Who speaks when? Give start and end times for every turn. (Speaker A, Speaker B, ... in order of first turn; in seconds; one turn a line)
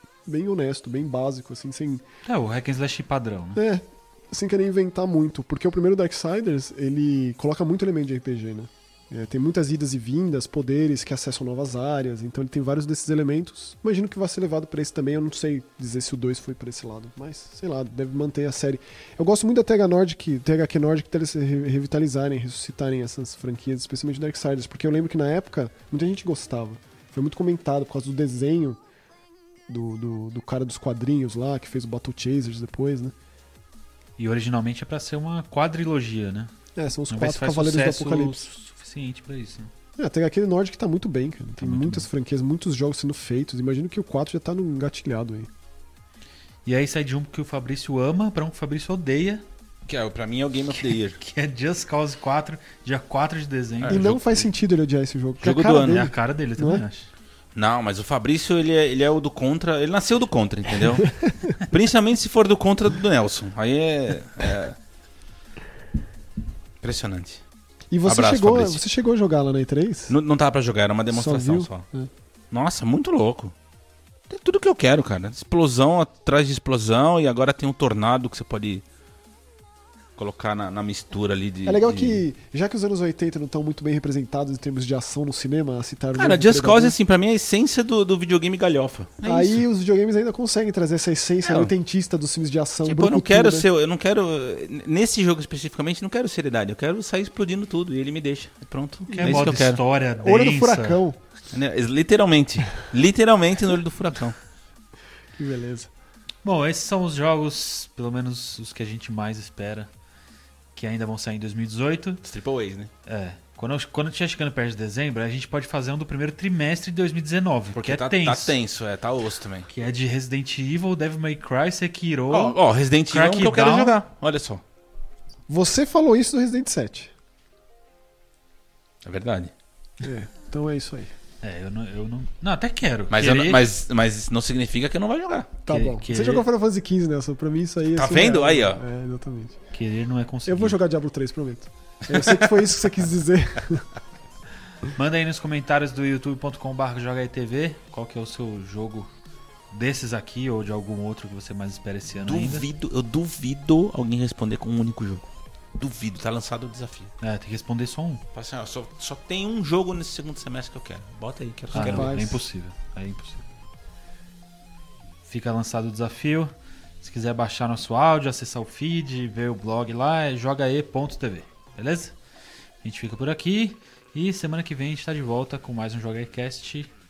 Speaker A: 0.3-2.0
Speaker B: 2.2-3.6
Speaker A: 3.5-28.8
Speaker A: 29.7-33.1
Speaker B: 34.2-36.5
Speaker A: 36.8-38.4
Speaker B: 37.1-39.7
Speaker A: 40.0-45.5
Speaker B: 41.6-42.1
Speaker B: 46.6-49.4
Speaker C: 49.9-51.2
Speaker B: 50.7-54.1
Speaker C: 53.8-54.5
Speaker A: 53.9-56.9
Speaker C: 55.4-56.1
Speaker B: 55.8-57.1
Speaker C: 57.5-64.8
Speaker A: 61.2-61.5
Speaker C: 66.8-67.4
Speaker A: 67.9-70.1
Speaker C: 68.0-68.8
Speaker C: 70.1-71.8
Speaker A: 71.1-72.1
Speaker C: 72.5-73.5
Speaker C: 74.3-78.8
Speaker C: 80.2-82.2
Speaker A: 81.6-87.0
Speaker C: 86.1-89.6
Speaker A: 89.2-93.7
Speaker C: 91.4-91.7
Speaker C: 92.8-99.8
Speaker A: 99.1-99.6
Speaker B: 99.1-101.0
Speaker A: 100.2-101.2
Speaker C: 101.5-104.3
Speaker A: 105.3-105.9
Speaker B: 106.4-109.9
Speaker B: 110.7-112.2
Speaker C: 112.2-112.9
Speaker B: 113.0-118.6
Speaker C: 117.7-119.7
Speaker B: 119.7-124.0
Speaker C: 122.3-124.6
Speaker A: 125.5-127.1
Speaker C: 129.0-129.5
Speaker A: 130.0-131.1
Speaker B: 131.4-133.7
Speaker C: 133.1-135.5
Speaker B: 135.7-136.5
Speaker A: 135.7-139.6
Speaker C: 137.9-138.8
Speaker B: 139.7-140.8
Speaker A: 140.4-143.8
Speaker C: 142.1-142.5
Speaker B: 144.9-149.1
Speaker B: 149.7-152.7
Speaker C: 152.2-155.2
Speaker C: 155.8-157.1
Speaker B: 157.2-158.2
Speaker C: 158.3-162.2
Speaker A: 161.7-162.4
Speaker B: 161.7-163.4
Speaker B: 165.3-172.1
Speaker B: 172.8-176.9